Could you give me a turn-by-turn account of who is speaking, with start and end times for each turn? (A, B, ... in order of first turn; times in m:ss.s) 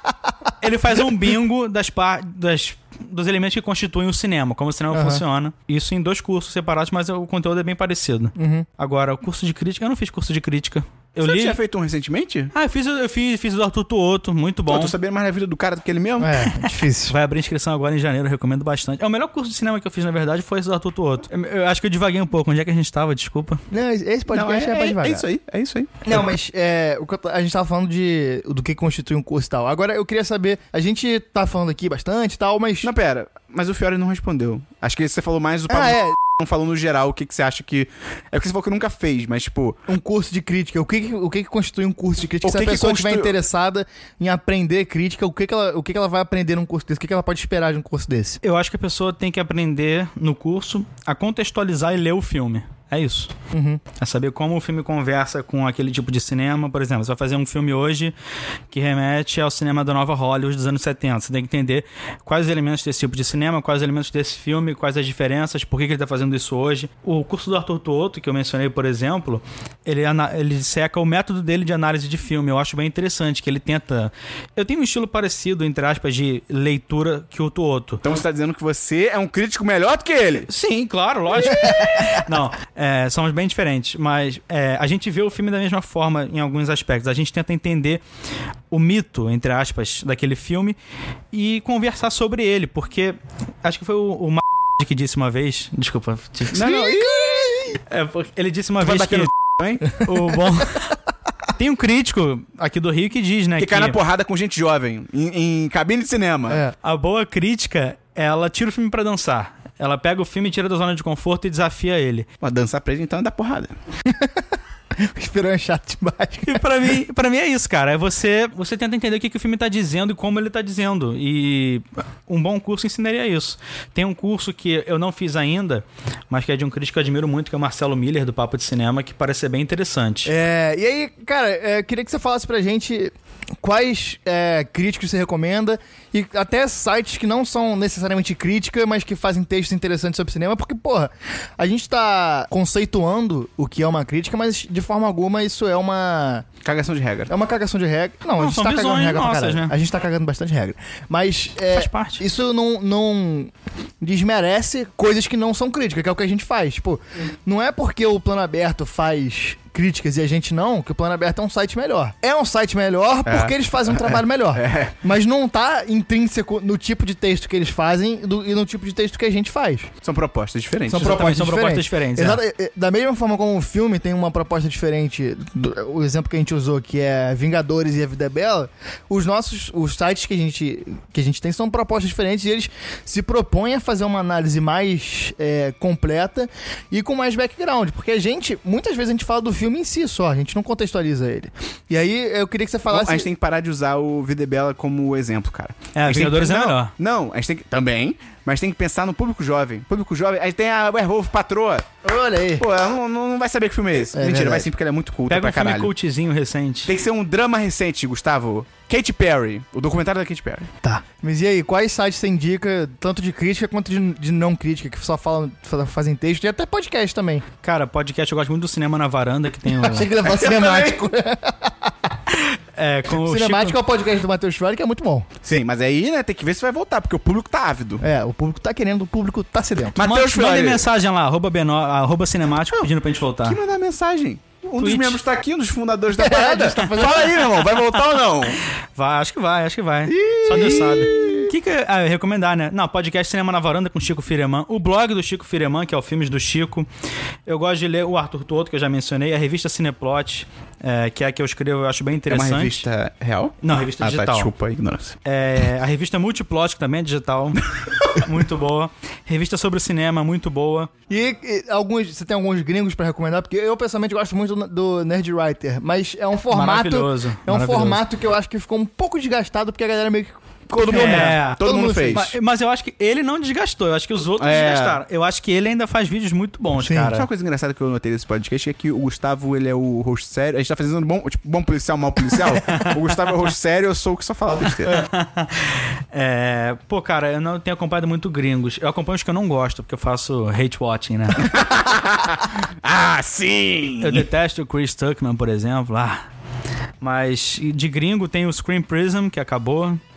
0:00.6-0:11.6 A
0:04.9-0:05.2 B
0:08.4-0:08.7 B
0:11.2-0:12.5 C
0:12.5-0:14.9 A
0:14.7-0:16.5 C
0:16.2-0:17.1 B
0:16.6-0:23.6 A
0:23.7-0:25.2 B
0:24.3-0:26.2 C
0:26.0-0:32.9 B
0:32.8-0:39.8 C
0:35.7-0:36.2 B
0:39.9-0:48.4 B
0:42.4-0:43.4 C
0:48.4-0:53.3 A
0:53.5-0:53.8 B
0:54.0-0:58.1 A
0:58.7-1:18.0 A
1:18.0-1:20.5 C
1:20.5-1:28.0 A
1:28.7-1:30.8 A
1:31.3-1:36.7 A
1:36.5-1:37.5 C
1:36.5-1:37.8 B
1:37.9-1:39.3 A
1:38.8-1:40.0 C
1:39.8-1:41.0 A
1:41.5-1:44.0 A
1:43.6-1:46.6 C
1:46.5-1:46.7 B
1:46.8-1:52.3 A
1:52.4-1:53.7 C
1:54.1-1:54.4 B
1:55.0-1:56.8 B
1:56.4-2:10.3 A
2:10.2-2:26.5 B
2:26.6-2:27.3 C
2:27.3-2:49.9 B
2:28.4-2:29.7 A
2:31.7-2:32.2 A
2:43.2-2:45.0 C
2:50.0-2:51.3 C
2:50.9-3:13.3 B
2:50.9-2:52.4 A
3:12.9-3:21.9 C
3:15.9-3:16.9 A
3:22.0-3:22.6 B
3:22.6-3:25.9 C
3:24.1-3:24.7 B
3:25.3-3:26.9 A
3:26.8-3:30.7 C
3:30.8-3:37.4 B
3:37.6-3:40.1 A
3:39.7-3:41.9 B
3:40.2-3:41.1 C
3:42.3-3:43.8 A
3:43.1-3:45.3 B
3:45.4-3:48.0 C
3:48.0-3:50.0 B
3:49.9-3:50.8 C
3:50.0-3:53.6 A
3:53.4-3:58.6 C
3:54.8-3:55.2 A
3:56.1-3:57.8 B
3:58.9-4:06.9 A
4:00.2-4:01.4 B
4:00.3-4:01.5 C
4:07.4-4:12.8 A
4:12.3-4:15.2 C
4:13.6-4:14.5 A
4:15.2-4:20.9 A
4:21.1-4:32.3 B
4:26.5-4:28.0 A
4:30.7-4:32.3 C
4:30.8-4:37.3 A
4:34.4-4:35.0 C
4:36.8-4:37.1 B
4:37.1-4:45.0 C
4:42.5-4:43.0 A
4:44.8-4:51.5 A
4:51.4-4:54.3 C
4:54.0-4:56.2 A
4:57.0-5:00.0 A